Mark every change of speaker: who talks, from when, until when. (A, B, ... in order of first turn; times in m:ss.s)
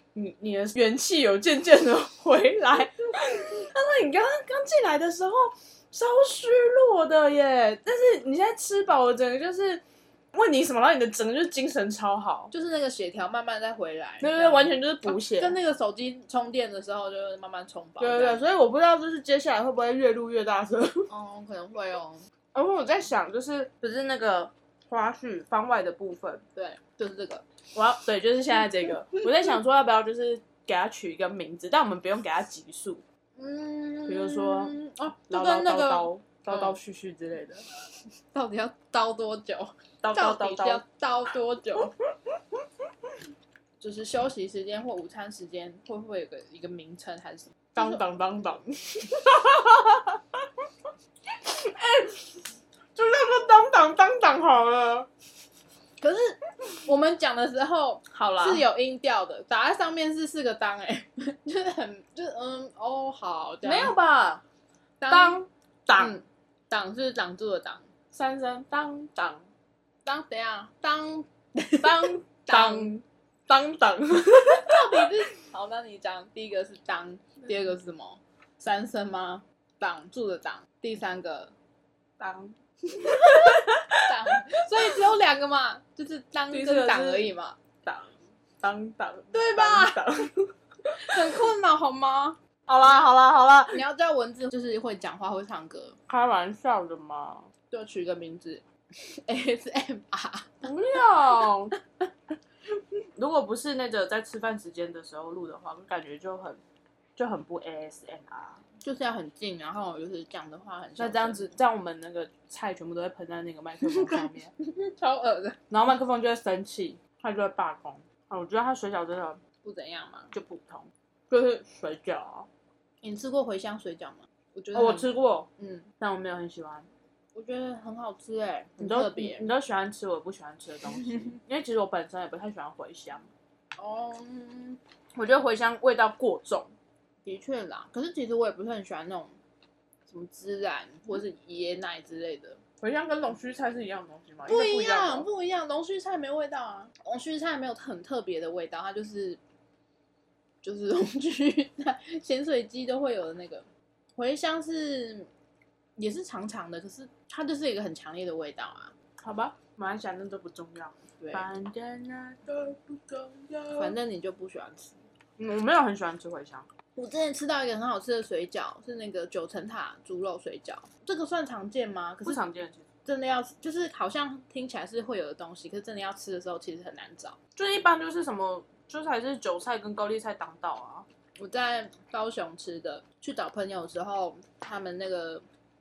0:00.1-0:09.8 A
0:10.3-0:12.5 A
0:12.5-0:18.4 B
0:14.2-0:15.5 A
0:18.0-0:21.1 A
0:21.1-0:22.2 B
0:22.5-0:26.4 A
0:26.5-0:27.4 B
0:27.7-0:33.0 A
0:33.4-0:36.8 B
0:34.1-0:34.8 A
0:35.3-0:37.6 A
0:38.3-0:41.9 B
0:40.0-0:40.8 A
0:43.8-0:48.0 B
0:47.7-0:50.4 A
0:51.4-0:52.4 A
0:52.9-0:55.1 A
0:56.0-1:03.9 B
0:58.1-0:58.6 A
1:03.6-1:04.4 A
1:05.0-1:07.9 B
1:05.1-1:06.2 A
1:08.1-1:09.4 A
1:10.0-1:12.9 B
1:11.8-1:14.8 A
1:14.6-1:21.5 B
1:22.2-1:24.1 A
1:22.9-1:27.6 B
1:26.5-1:27.3 A
1:27.8-1:30.5 A
1:29.3-1:30.0 B
1:31.0-1:32.4 B
1:32.7-1:33.8 A
1:33.7-1:36.0 B
1:36.1-1:37.5 A
1:37.7-1:40.7 B
1:40.6-1:41.7 A
1:43.2-1:46.6 A
1:47.2-1:48.6 A
1:48.8-1:51.5 B
1:51.0-1:54.5 A
1:53.8-1:55.6 B
1:55.7-1:59.4 A
1:59.6-2:00.3 B
2:00.3-2:02.5 A
2:03.0-2:05.9 B
2:04.7-2:05.5 A
2:06.0-2:06.8 A
2:07.3-2:09.5 B
2:08.8-2:13.2 A
2:11.0-2:11.3 B
2:13.8-2:14.8 B
2:15.1-2:16.7 A
2:17.2-2:19.3 B
2:20.1-2:22.6 B
2:22.8-2:25.3 A
2:24.4-2:29.4 B
2:30.6-2:33.6 B
2:34.2-2:35.3 B
2:36.0-2:38.9 B
2:39.2-2:43.9 A
2:41.2-2:41.4 B
2:43.8-2:45.0 B
2:45.4-2:46.7 A
2:47.0-2:52.4 B
2:52.2-2:52.8 A
2:53.0-2:57.4 B
2:57.6-3:01.0 A
3:01.4-3:05.4 B